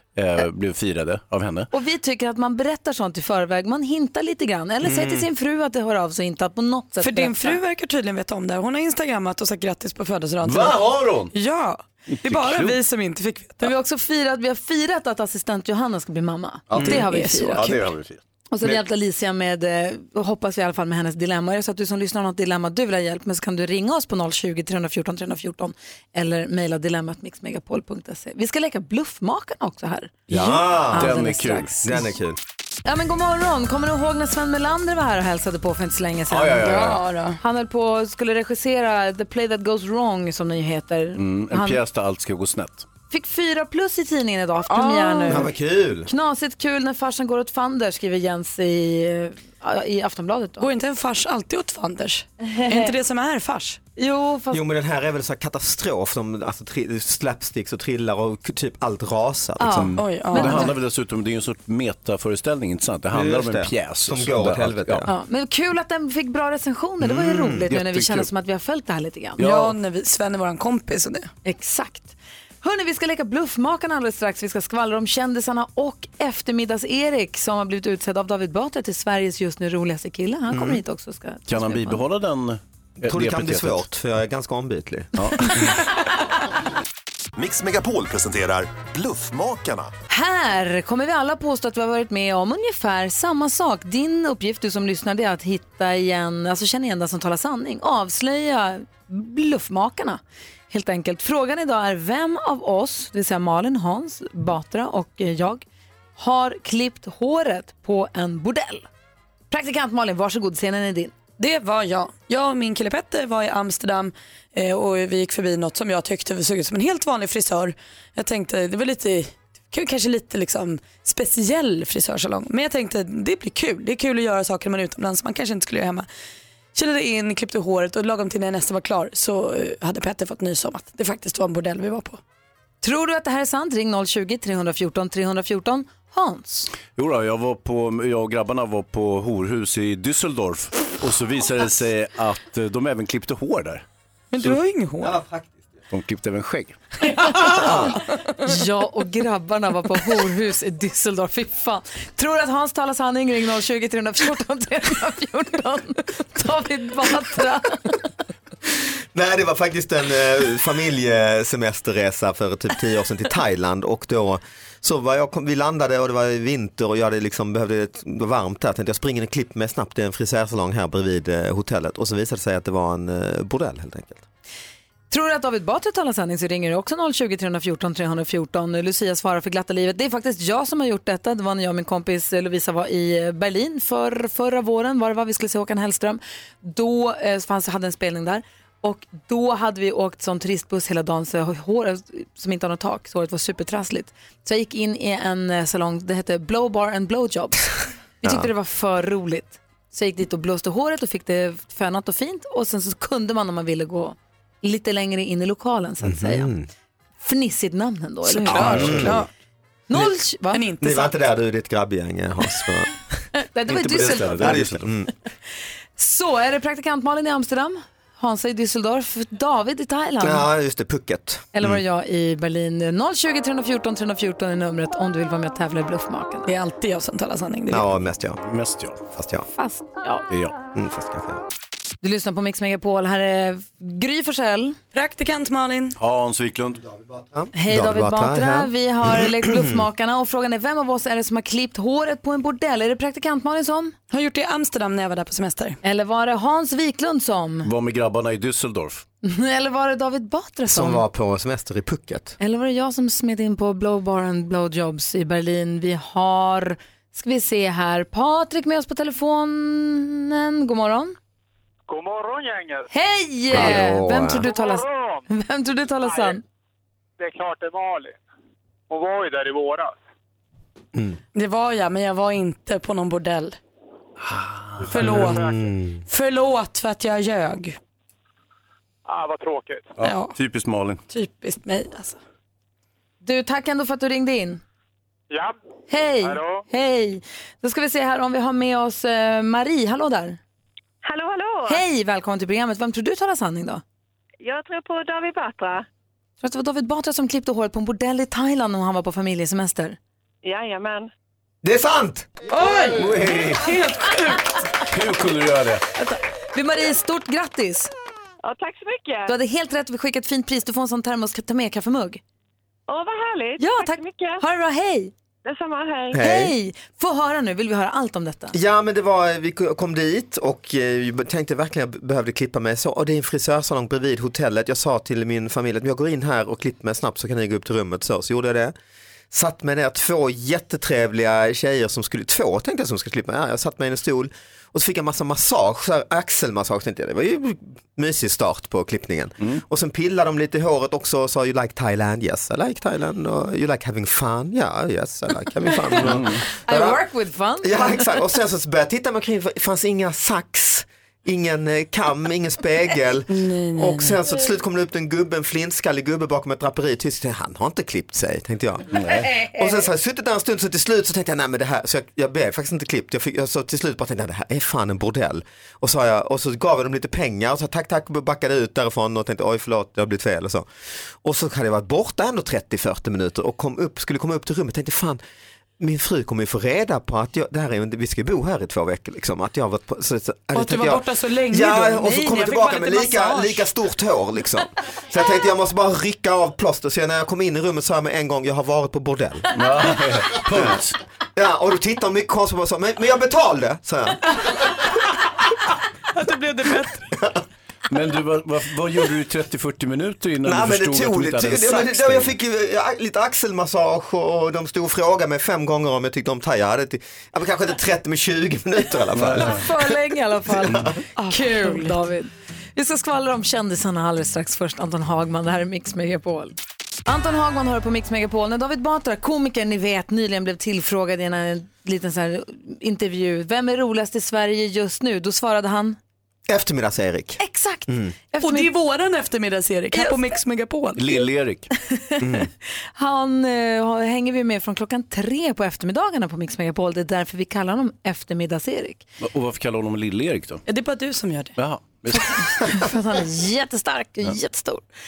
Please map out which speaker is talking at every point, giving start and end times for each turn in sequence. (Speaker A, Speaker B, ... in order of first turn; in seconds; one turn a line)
Speaker A: 0.1-1.7
Speaker B: 1.7-7.6
Speaker C: 4.8-5.3
Speaker D: 7.0-10.8
Speaker A: 10.4-11.3
Speaker D: 11.3-13.7
Speaker A: 12.1-12.8
Speaker B: 13.6-17.8
Speaker A: 16.7-18.2
Speaker D: 16.8-17.8
Speaker B: 18.5-31.9
Speaker C: 30.3-31.1
Speaker A: 30.3-31.8
Speaker C: 31.8-32.4
Speaker B: 32.8-36.8
Speaker A: 36.3-37.0
Speaker D: 36.6-37.4
Speaker B: 37.4-41.8
Speaker A: 41.1-42.9
Speaker B: 43.1-45.5
Speaker D: 44.7-45.5
Speaker C: 45.3-46.1
Speaker B: 46.0-50.7
Speaker D: 50.6-53.8
Speaker B: 52.4-52.9
Speaker B: 54.0-54.6
Speaker C: 54.5-59.9
Speaker B: 59.6-60.7
Speaker A: 59.7-65.0
Speaker D: 59.9-60.7
Speaker C: 63.1-65.1
Speaker B: 65.1-69.4
Speaker C: 67.0-67.7
Speaker A: 67.7-68.3
Speaker A: 69.4-69.8
Speaker D: 69.4-71.3
Speaker B: 71.4-82.0
Speaker C: 80.5-80.8
Speaker A: 81.5-83.9
Speaker C: 83.0-85.1
Speaker A: 85.1-85.6
Speaker E: 87.3-89.9
Speaker B: 90.1-105.6
Speaker B: 106.2-108.9
Speaker B: 109.5-111.2
Speaker D: 111.4-126.1
Speaker D: 126.7-132.2
Speaker B: 132.8-136.7
Speaker A: 136.9-143.8
Speaker D: 144.3-145.2
Speaker C: 145.0-145.5
Speaker A: 145.9-146.8
Speaker D: 147.2-148.6
Speaker B: 148.4-157.8
Speaker C: 159.1-174.2
Speaker B: 175.1-197.7
Speaker B: 198.2-206.5
Speaker C: 198.2-198.5
Speaker C: 206.0-206.7
Speaker B: 207.2-209.2
Speaker D: 208.2-209.3
Speaker C: 208.5-209.2
Speaker A: 208.7-209.2
Speaker B: 209.9-210.6
Speaker D: 210.5-211.1
Speaker C: 210.8-212.9
Speaker B: 213.3-214.6
Speaker A: 213.7-214.9
Speaker C: 213.8-215.1
Speaker B: 216.0-220.5
Speaker C: 220.2-221.8
Speaker B: 221.5-226.5
Speaker D: 226.4-227.8
Speaker C: 227.7-228.4
Speaker A: 228.4-229.0
Speaker C: 229.1-229.4
Speaker B: 229.5-230.2
Speaker A: 230.3-230.6
Speaker C: 230.7-231.4
Speaker B: 232.0-234.8
Speaker D: 234.9-235.9
Speaker A: 236.0-236.9
Speaker C: 237.3-239.8
Speaker B: 237.5-243.9
Speaker D: 244.1-245.8
Speaker B: 245.8-247.7
Speaker A: 247.6-249.0
Speaker B: 249.2-251.0
Speaker C: 250.7-252.3
Speaker B: 252.4-261.1
Speaker F: 261.9-262.9
Speaker B: 262.9-266.4
Speaker C: 263.5-264.5
Speaker F: 264.4-265.2
Speaker F: 266.0-266.4
Speaker F: 267.2-268.2
Speaker F: 268.9-269.9
Speaker D: 271.3-273.6
Speaker A: 274.2-275.2
Speaker D: 274.9-275.5
Speaker C: 274.9-276.0
Speaker D: 276.1-277.8
Speaker F: 279.1-280.0
Speaker A: 280.0-281.0
Speaker D: 280.0-280.3
Speaker D: 281.1-282.2
Speaker B: 283.2-284.6
Speaker B: 285.9-290.4
Speaker F: 286.2-286.6
Speaker G: 291.0-291.8
Speaker B: 291.7-293.8
Speaker G: 294.4-295.9
Speaker B: 296.4-300.0
Speaker G: 300.4-301.1
Speaker C: 301.6-302.3
Speaker D: 302.5-304.6
Speaker C: 302.9-303.7
Speaker A: 304.9-305.8
Speaker B: 305.9-307.9
Speaker G: 308.4-309.3
Speaker B: 309.3-312.2
Speaker G: 312.9-314.4
Speaker B: 313.6-315.1
Speaker G: 315.4-316.1
Speaker C: 316.1-316.5
Speaker B: 316.1-318.5
Speaker C: 318.5-328.7
Speaker C: 329.3-347.0
Speaker A: 339.4-339.6
Speaker A: 346.0-346.4
Speaker B: 346.6-348.1
Speaker C: 347.6-370.6
Speaker D: 353.3-354.2
Speaker A: 358.9-359.3
Speaker C: 371.2-375.2
Speaker C: 375.8-389.5
Speaker D: 380.5-383.6
Speaker A: 389.5-391.0
Speaker C: 390.5-390.8
Speaker C: 391.4-394.2
Speaker D: 396.1-397.1
Speaker A: 397.9-402.3
Speaker C: 400.4-409.6
Speaker A: 409.1-409.6
Speaker B: 409.4-416.5
Speaker C: 410.6-410.9
Speaker D: 411.2-411.9
Speaker B: 417.1-426.0
Speaker C: 426.5-428.1
Speaker B: 427.4-428.7
Speaker D: 428.4-431.2
Speaker B: 429.9-430.2
Speaker A: 430.9-431.7
Speaker B: 431.9-439.0
Speaker C: 432.2-432.5
Speaker A: 439.2-440.6
Speaker D: 440.7-441.6
Speaker A: 441.6-442.4
Speaker B: 442.1-444.8